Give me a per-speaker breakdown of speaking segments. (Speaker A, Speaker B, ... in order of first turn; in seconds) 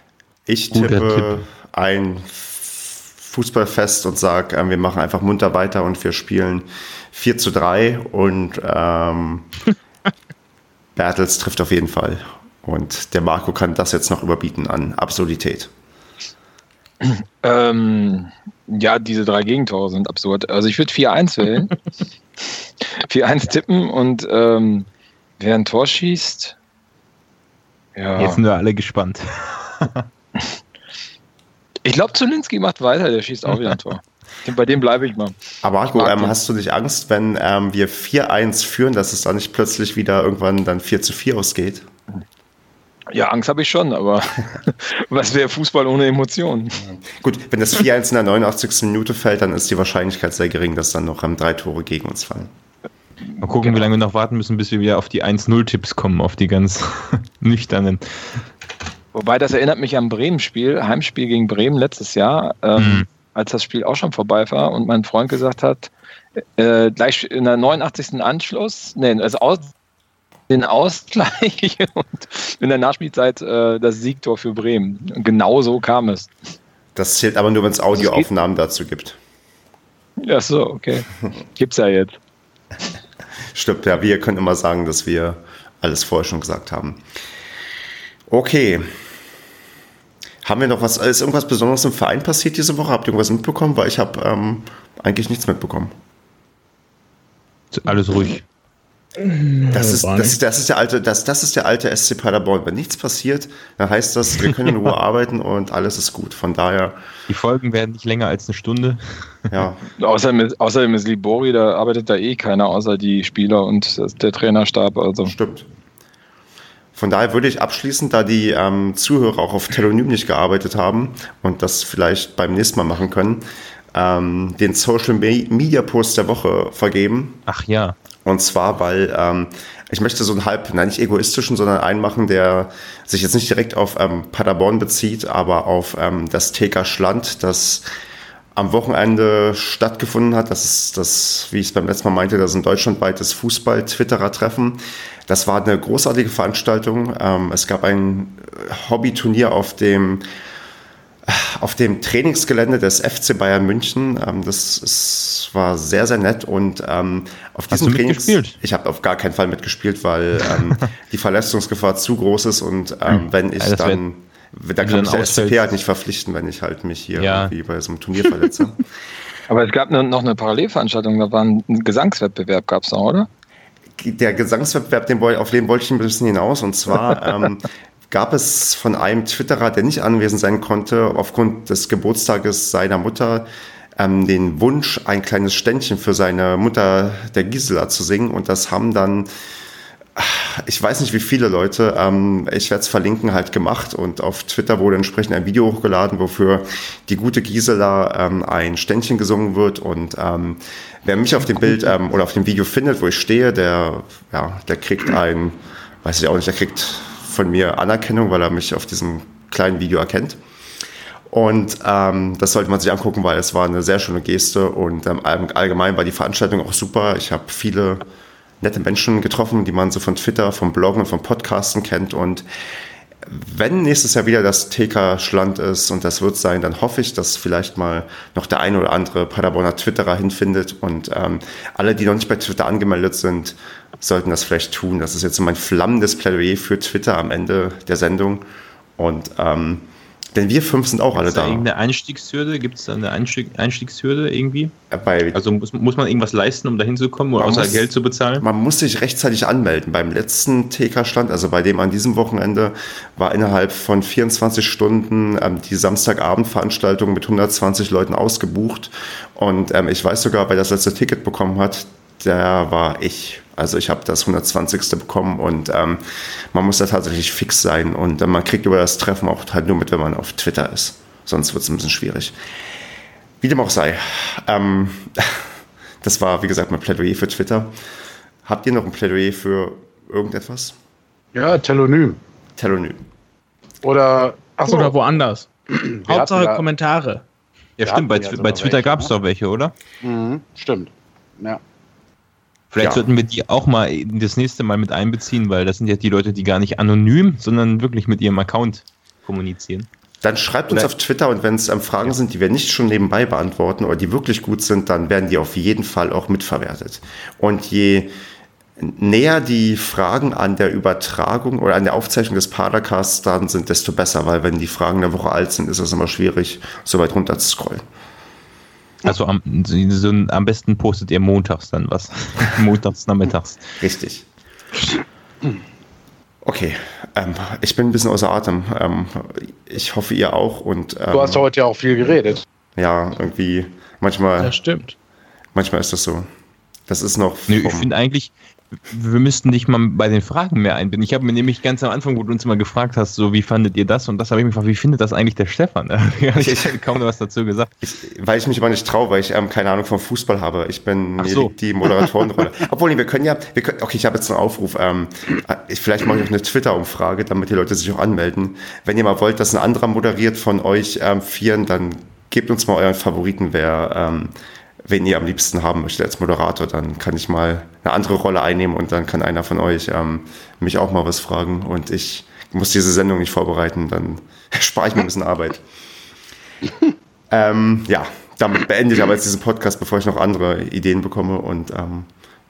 Speaker A: 0.5-9.5, 10.9-15.7, 35.6-41.9, 46.8-52.5, 76.9-79.2, 83.5-87.0, 88.3-88.9, 90.4-95.9, 99.7-107.0, 109.5-109.8, 115.2-115.7, 116.9-123.4, 123.9-127.4, 128.2-137.8, 138.5-150.2, 151.2-168.8, 174.0-183.4, 184.0-189.3, 190.2-210.4, 211.3-218.0, 218.6-222.4, 223.2-238.4, 239.0-241.7, 244.9-245.4, 247.4-272.3, 273.4-275.5, 276.0-277.7, 278.4-280.7, 282.6-283.0, 300.2-308.1, 308.8-317.8, 323.8-324.3, 326.4-331.4, 332.8-334.6, 335.5-336.3, 336.9-337.9, 346.4-346.8, 347.8-364.3, 364.8-375.6, 377.3-382.1
Speaker B: 0.7-1.4, 28.2-30.1, 53.4-58.4, 62.8-63.0, 97.7-98.4, 107.3-109.6, 127.5-128.0, 157.7-158.6, 163.6-164.0, 164.8-165.7, 167.1-167.5, 241.1-244.7, 245.3-248.4, 287.8-289.7, 292.7-299.9, 319.0-323.8, 337.5-347.7, 351.2-351.5
Speaker C: 17.0-21.8, 23.0-24.9, 25.4-26.6, 27.9-28.4, 31.8-35.3, 35.9-36.3, 43.1-46.8, 53.4-53.8, 59.1-65.9, 66.6-69.7, 70.5-76.3, 78.0-78.2, 80.2-82.2, 110.0-115.3, 169.5-173.3
Speaker D: 99.2-100.4, 284.6-285.5, 286.1-287.2, 334.4-334.9
Speaker E: 281.3-282.2, 283.8-284.9, 285.7-286.6, 287.8-289.1, 290.0-291.6, 331.1-332.4